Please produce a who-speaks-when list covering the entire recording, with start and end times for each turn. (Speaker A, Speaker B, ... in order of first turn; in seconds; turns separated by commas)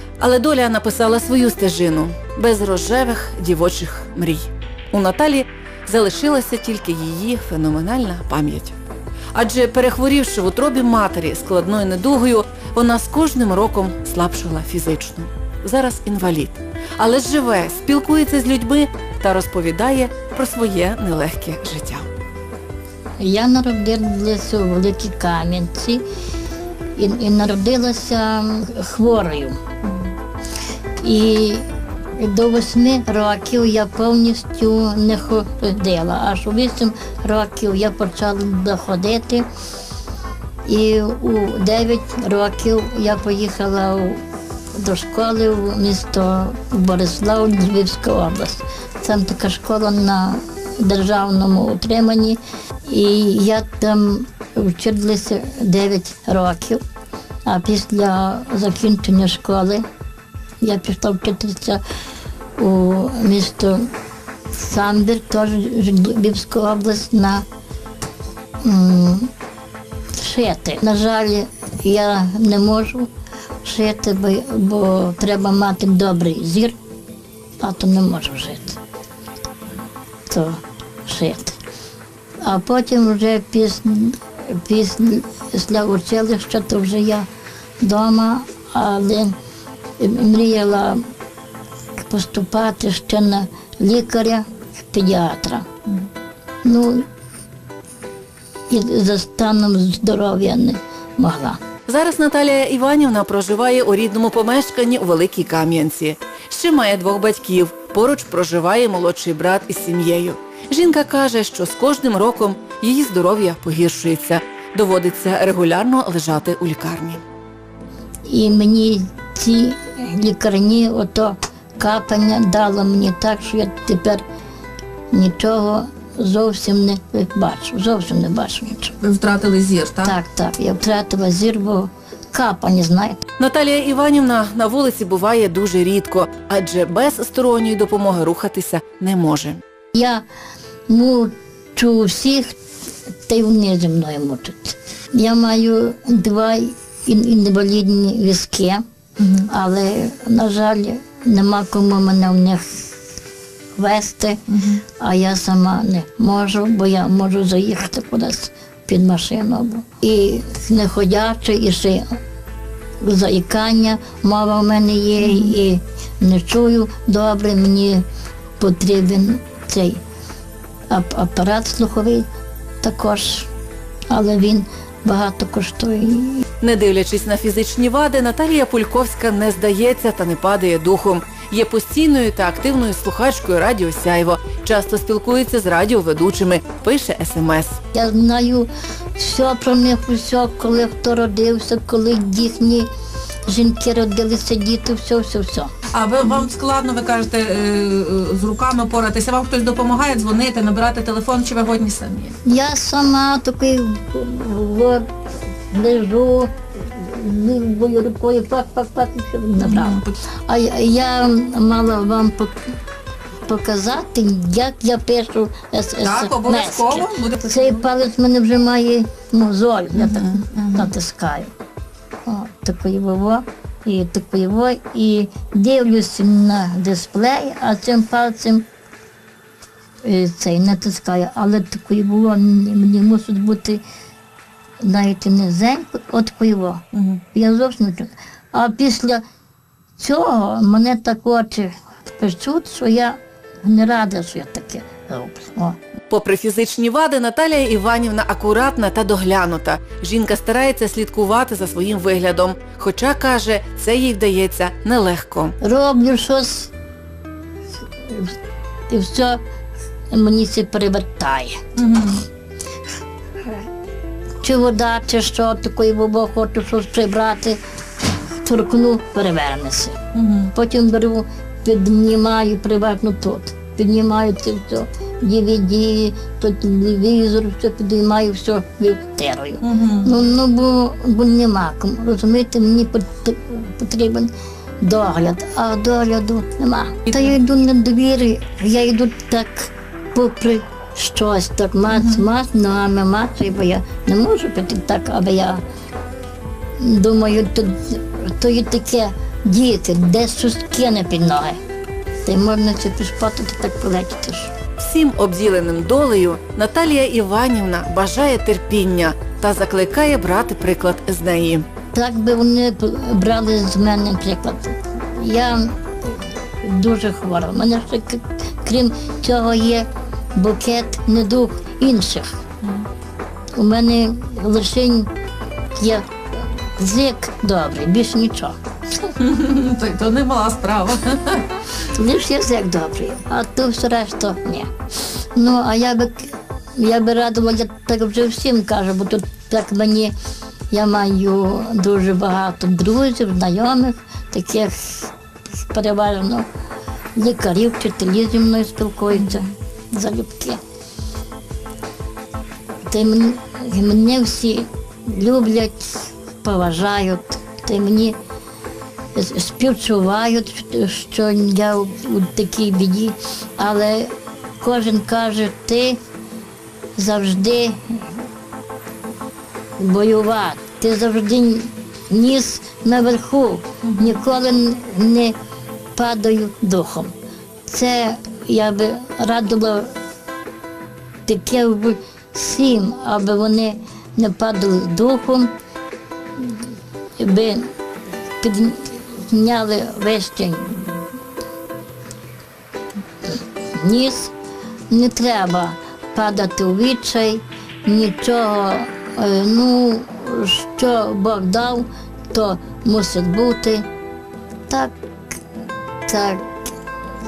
Speaker A: 0.2-8.8, Speaker A: 9.3-22.1, Speaker B: 23.2-26.0, Speaker B: 26.9-29.6, Speaker B: 31.0-39.5, Speaker B: 40.6-44.2, Speaker B: 44.7-56.8, Speaker B: 57.5-59.8, Speaker B: 60.6-61.8, Speaker B: 62.5-63.9, Speaker B: 64.5-67.4, Speaker B: 68.6-69.3, Speaker B: 70.1-73.1, Speaker B: 73.6-76.8, Speaker B: 77.6-78.8, Speaker B: 80.3-81.6, Speaker B: 82.4-87.3, Speaker B: 87.8-89.3, Speaker B: 90.0-91.0, Speaker B: 92.0-95.7, Speaker B: 96.6-97.0, Speaker B: 98.7-101.6, Speaker A: 101.9-117.2, Speaker B: 118.2-124.2, Speaker B: 125.1-129.0, Speaker C: 129.0-130.1, Speaker A: 129.1-129.8, Speaker B: 130.0-133.2, Speaker A: 133.4-139.6, Speaker B: 139.9-140.2, Speaker B: 140.9-142.6, Speaker B: 143.3-152.9, Speaker B: 153.7-162.2, Speaker B: 163.0-168.0, Speaker B: 168.6-170.0, Speaker B: 170.9-172.3, Speaker B: 172.8-173.5, Speaker B: 174.1-176.4, Speaker A: 176.6-187.8, Speaker B: 187.9-192.9, Speaker B: 193.4-195.7, Speaker C: 196.0-202.3, Speaker B: 202.4-205.1, Speaker B: 205.7-212.6, Speaker C: 209.6-210.1, Speaker B: 213.4-221.5, Speaker C: 216.0-217.7, Speaker C: 220.0-220.8, Speaker B: 222.2-228.7, Speaker B: 230.0-233.8, Speaker B: 234.8-239.2, Speaker B: 240.0-245.8, Speaker A: 246.1-255.6, Speaker B: 255.6-256.7, Speaker B: 258.0-258.3, Speaker B: 258.9-259.4, Speaker B: 260.1-261.6, Speaker C: 261.9-262.2, Speaker B: 264.4-267.6, Speaker B: 268.4-270.0, Speaker C: 270.1-270.5, Speaker B: 270.5-295.6, Speaker C: 279.6-280.1, Speaker B: 296.8-301.6, Speaker B: 302.2-304.5, Speaker A: 304.8-311.6, Speaker B: 311.9-322.4, Speaker B: 323.6-325.1, Speaker B: 325.7-328.6, Speaker C: 329.2-331.5, Speaker B: 331.8-334.7, Speaker B: 335.3-340.1, Speaker B: 340.7-346.5, Speaker B: 347.1-350.6, Speaker B: 352.8-358.2, Speaker B: 359.1-366.0, Speaker B: 366.9-368.2, Speaker B: 369.8-375.4, Speaker B: 375.9-377.1, Speaker B: 377.7-380.0, Speaker B: 381.2-385.5, Speaker B: 386.4-387.7, Speaker B: 388.4-391.0, Speaker B: 393.2-394.3, Speaker B: 394.9-403.9, Speaker B: 404.7-404.9, Speaker B: 406.1-406.5